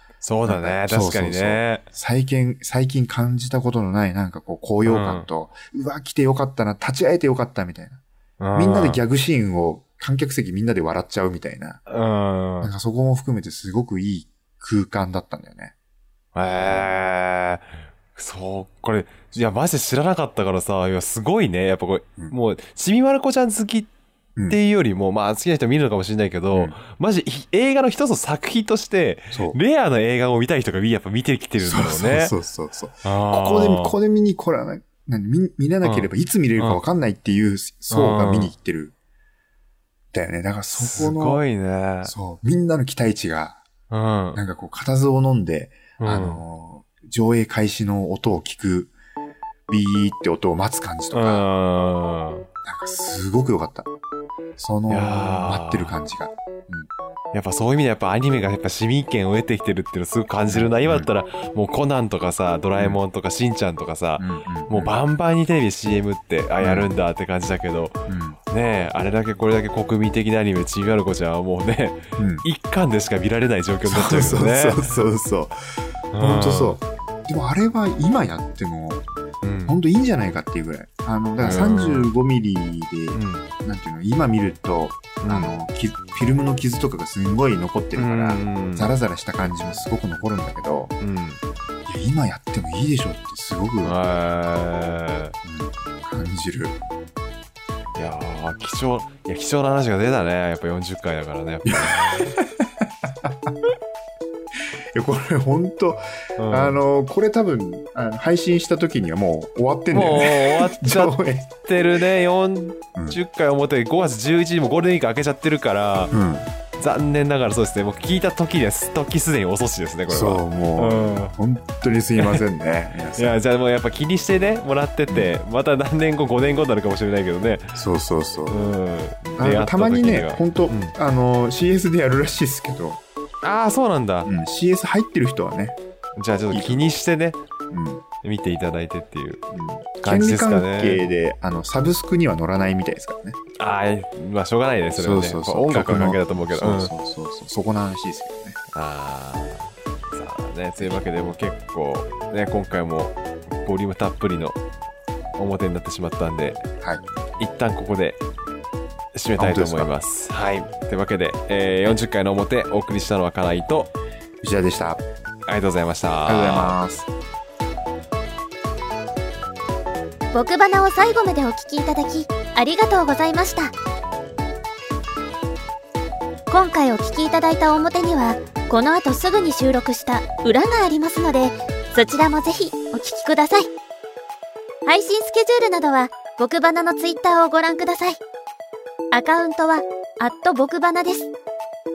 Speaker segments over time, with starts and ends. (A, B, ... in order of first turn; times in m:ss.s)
0:00.2-0:01.8 A
0:00.4-0:08.0 B
0:04.8-0:05.3 A
0:08.4-0:09.0 A
0:08.6-0:11.8 B
0:11.9-0:12.7 A
0:12.6-0:15.7 B
0:16.4-0:23.9 A
0:24.5-0:32.3 A
0:29.3-0:29.6 B
0:31.6-0:39.0 B
0:33.0-0:34.0 A
0:35.8-0:36.8 A
0:37.9-0:38.5 A
0:40.1-0:41.4 B
0:40.7-0:42.1 A
0:42.0-0:43.6 B
0:43.9-0:44.4 A
0:44.3-0:48.9 B
0:46.0-0:46.4 A
0:49.7-0:51.5 B
0:51.1-0:52.5 A
0:52.6-0:53.9 B
0:54.6-0:56.9 B
0:54.9-0:55.9 A
0:57.3-1:08.0 A
1:00.5-1:01.1 B
1:02.8-1:03.0 B
1:04.2-1:04.9 B
1:06.6-1:06.9 B
1:08.1-1:08.4 B
1:08.5-1:14.9 A
1:12.2-1:12.4 B
1:13.8-1:19.0 B
1:16.1-1:16.8 A
1:19.4-1:19.8 A
1:19.7-1:30.9 B
1:21.4-1:22.1 A
1:23.1-1:23.5 A
1:25.2-1:25.5 A
1:28.0-1:28.9 A
1:31.0-1:31.4 A
1:31.9-1:34.0 B
1:33.8-1:35.4 A
1:35.4-1:36.8 B
1:38.0-1:42.3 A
1:41.7-1:43.5 B
1:45.0-1:51.6 B
1:46.4-1:46.8 A
1:49.9-1:56.1 A
1:56.1-1:56.5 B
1:56.8-2:01.3 A
2:00.1-2:03.4 B
2:03.2-2:07.8 A
2:07.8-2:08.6 B
2:08.5-2:11.0 A
2:09.4-2:13.0 B
2:13.4-2:14.3 A
2:14.2-2:15.8 B
2:16.2-2:17.4 A
2:16.5-2:16.8 B
2:17.7-2:18.0 B
2:18.2-2:19.4 A
2:19.5-2:23.4 B
2:20.0-2:21.0 A
2:23.6-2:26.9 A
2:25.0-2:28.6 B
2:28.7-2:34.6 A
2:35.4-2:36.6 A
2:37.4-2:38.2 A
2:39.1-2:43.9 A
2:39.4-2:39.9 B
2:44.4-2:45.0 B
2:45.5-2:46.8 A
2:46.3-2:47.1 B
2:50.3-2:53.7 C
2:56.5-3:03.7 C
3:04.9-3:08.2 C
3:09.1-3:11.3 C